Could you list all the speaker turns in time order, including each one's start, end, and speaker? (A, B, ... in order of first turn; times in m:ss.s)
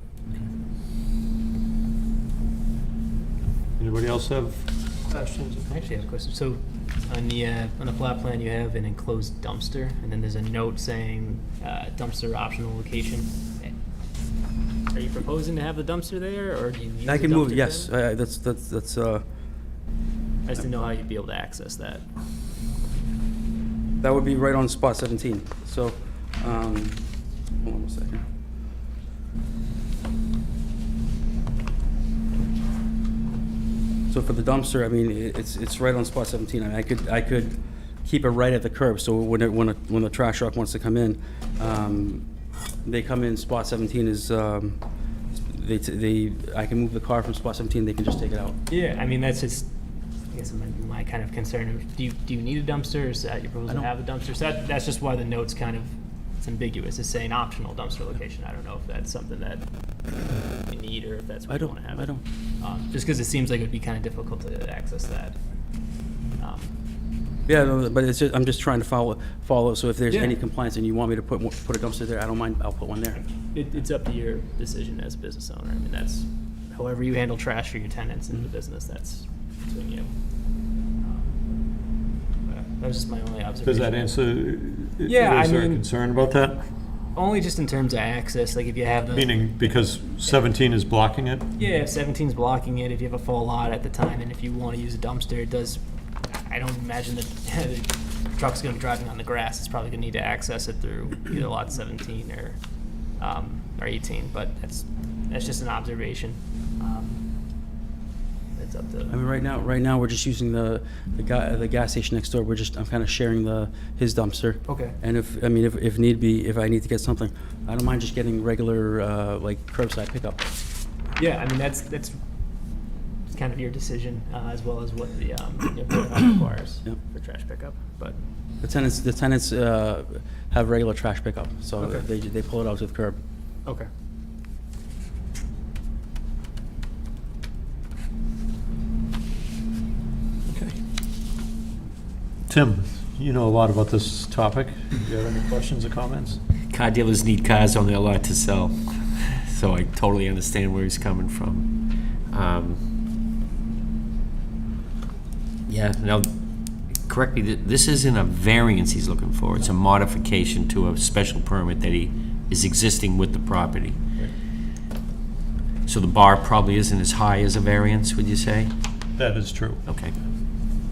0:03.8-0:06.0 A
0:05.7-0:13.7 B
0:14.9-0:17.9 B
0:17.0-0:19.2 C
0:20.5-0:22.0 B
0:24.0-0:27.0 C
0:27.6-0:28.2 C
0:34.1-0:42.3 C
0:42.8-0:44.8 C
0:45.4-0:48.6 C
0:48.7-0:49.7 B
0:50.3-0:59.6 B
1:00.4-1:05.4 B
1:01.5-1:02.2 C
1:06.4-1:06.7 B
1:07.5-1:13.2 C
1:10.1-1:10.4 B
1:13.5-1:20.1 B
1:21.0-1:21.4 B
1:22.5-1:24.2 B
1:23.6-1:26.6 A
1:25.0-1:25.8 B
1:27.2-1:30.1 B
1:29.1-1:31.5 A
1:31.6-1:35.8 B
1:36.4-1:42.6 B
1:43.2-1:47.2 B
1:48.6-1:49.2 B
1:49.1-2:00.5 C
1:54.7-1:55.0 B
2:01.2-2:02.2 B
2:03.3-2:08.2 B
2:08.6-2:13.2 C
2:11.8-2:12.1 B
2:22.5-2:26.4 A
2:26.7-2:28.8 D
2:29.4-2:31.7 D
2:32.3-2:32.8 D
2:35.7-2:36.3 D
2:37.1-2:44.0 D
2:45.9-2:48.7 D
2:49.2-2:49.8 A
2:49.9-2:50.2 D